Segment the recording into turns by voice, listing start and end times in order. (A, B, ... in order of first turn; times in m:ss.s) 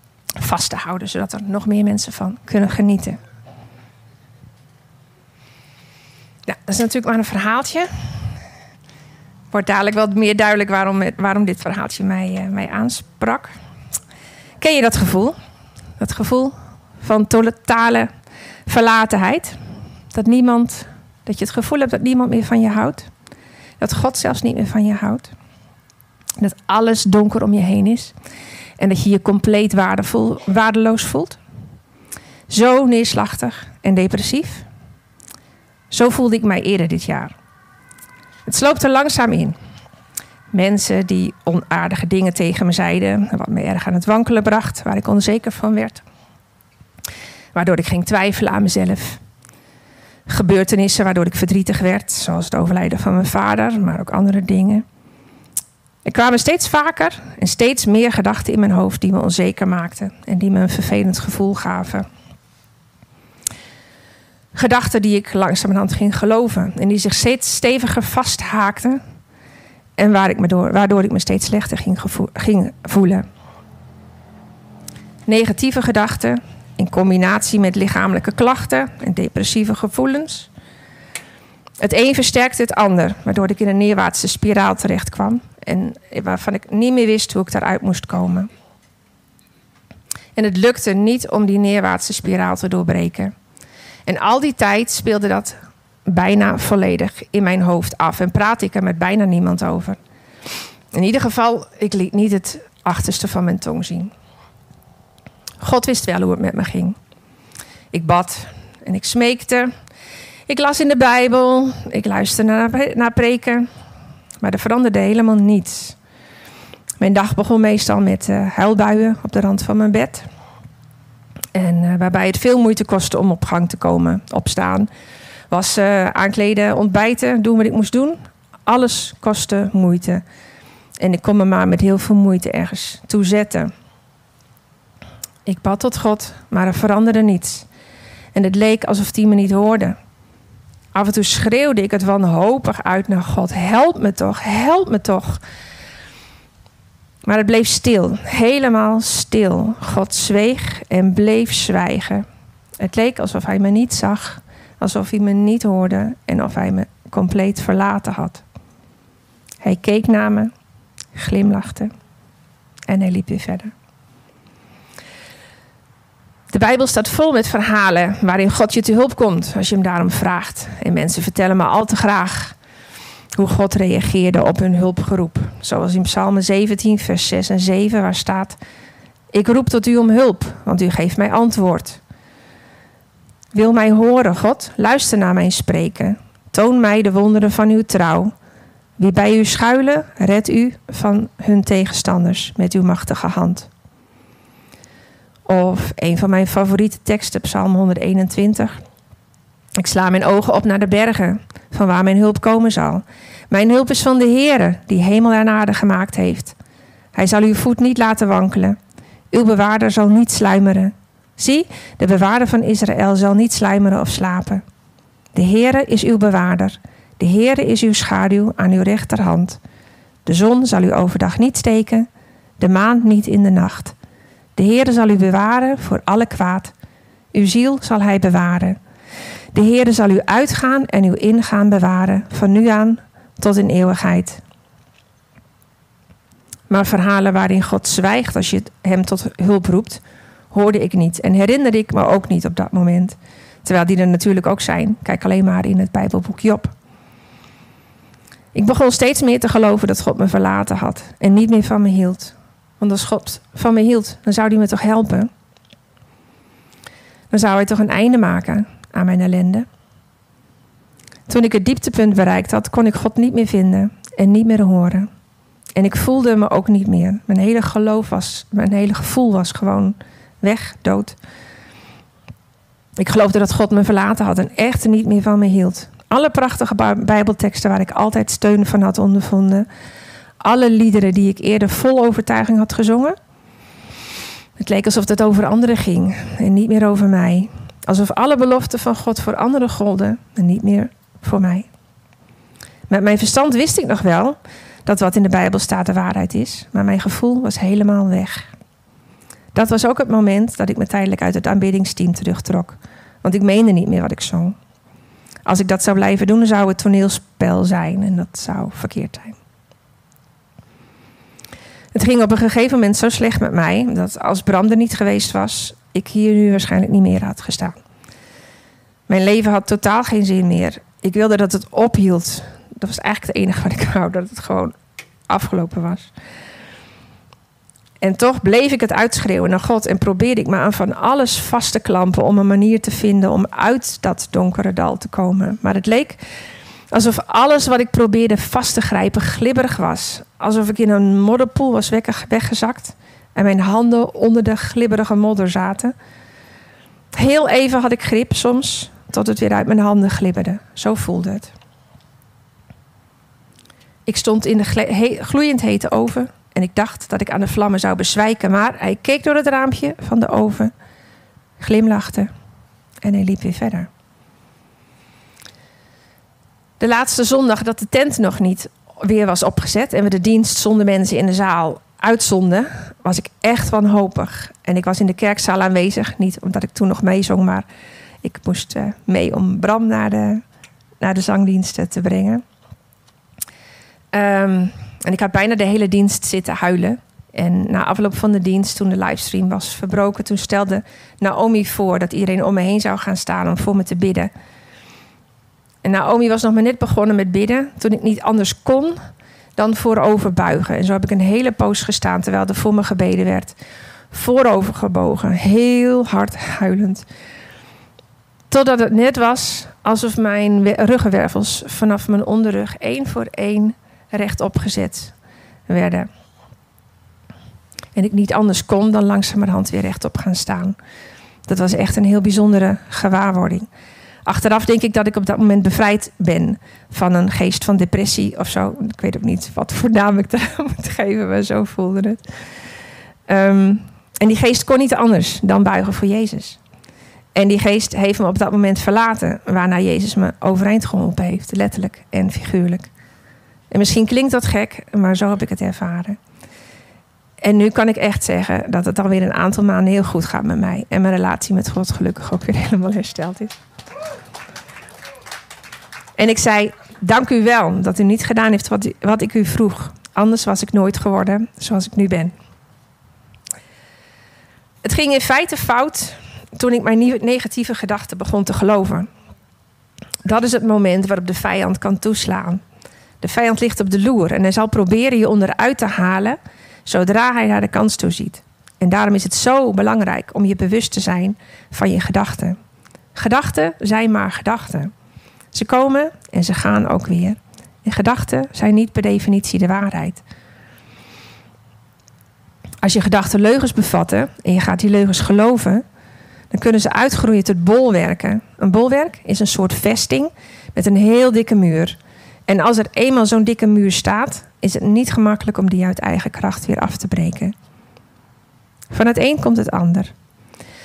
0:00.4-0:03.2 A
0:06.5-0:07.9 A
0:09.5-0:13.5 A
0:14.6-0:15.3 A
0:16.0-0:18.1 A
0:18.7-0:19.6 A
0:20.1-0:23.1 A
0:23.8-0:25.3 A
0:26.4-0:28.1 A
0:28.8-0:31.4 A
0:32.5-0:34.6 A
0:35.9-0:37.3 A
0:38.4-0:39.6 A
0:40.5-0:46.0 A
0:47.5-0:49.2 A
0:50.3-0:54.8 A
0:56.0-1:02.0 A
1:04.5-1:09.0 A
1:10.0-1:13.2 A
1:15.2-1:20.5 A
1:21.8-1:28.5 A
1:30.4-1:33.3 A
1:34.0-1:40.0 A
1:40.9-1:44.1 A
1:45.6-1:47.0 A
1:47.9-1:49.7 A
1:50.5-1:53.7 A
1:54.4-1:56.0 A
1:57.0-2:00.2 A
2:01.5-2:04.9 A
2:05.5-2:10.2 A
2:11.0-2:13.7 A
2:15.4-2:17.7 A
2:18.3-2:20.0 A
2:20.9-2:25.4 A
2:27.2-2:32.2 A
2:32.8-2:38.4 A
2:39.6-2:40.5 A
2:41.1-2:41.9 A
2:42.9-2:43.7 A
2:46.5-2:52.6 A
2:53.3-2:58.6 A
2:59.3-3:02.0 A
3:03.5-3:08.3 A
3:09.0-3:13.7 A
3:15.4-3:18.8 A
3:19.8-3:26.5 A
3:27.1-3:28.8 A
3:29.3-3:34.6 A
3:35.3-3:39.6 A
3:40.2-3:42.1 A
3:42.6-3:43.9 A
3:44.6-3:46.7 A
3:47.3-3:48.8 A
3:49.5-3:54.4 A
3:56.7-4:00.0 A
4:00.5-4:06.7 A
4:08.5-4:15.3 A
4:17.3-4:19.6 A
4:21.3-4:25.1 A
4:25.8-4:31.2 A
4:33.0-4:39.7 A
4:40.4-4:43.2 A
4:44.6-4:51.7 A
4:52.9-4:58.5 A
4:59.5-5:04.6 A
5:05.4-5:09.4 A
5:11.9-5:17.8 A
5:19.1-5:24.7 A
5:25.3-5:26.1 A
5:28.0-5:36.2 A
5:36.9-5:45.9 A
5:47.1-5:51.5 A
5:54.0-6:00.7 A
6:01.6-6:02.3 A
6:03.0-6:03.9 A
6:06.8-6:17.6 A
6:18.2-6:20.4 A
6:21.0-6:22.4 A
6:24.1-6:34.3 A
6:35.8-6:39.0 A
6:39.6-6:43.5 A
6:44.1-6:47.0 A
6:48.5-6:55.1 A
6:55.7-6:56.1 A
6:57.9-7:00.8 A
7:01.5-7:03.7 A
7:04.2-7:12.2 A
7:13.3-7:16.6 A
7:17.3-7:22.9 A
7:23.7-7:26.2 A
7:27.4-7:33.5 A
7:36.2-7:42.3 A
7:44.8-7:49.1 A
7:50.2-7:52.6 A
7:53.2-8:02.6 A
8:03.1-8:04.9 A
8:05.5-8:10.2 A
8:12.8-8:15.8 A
8:16.5-8:27.5 A
8:28.9-8:30.1 A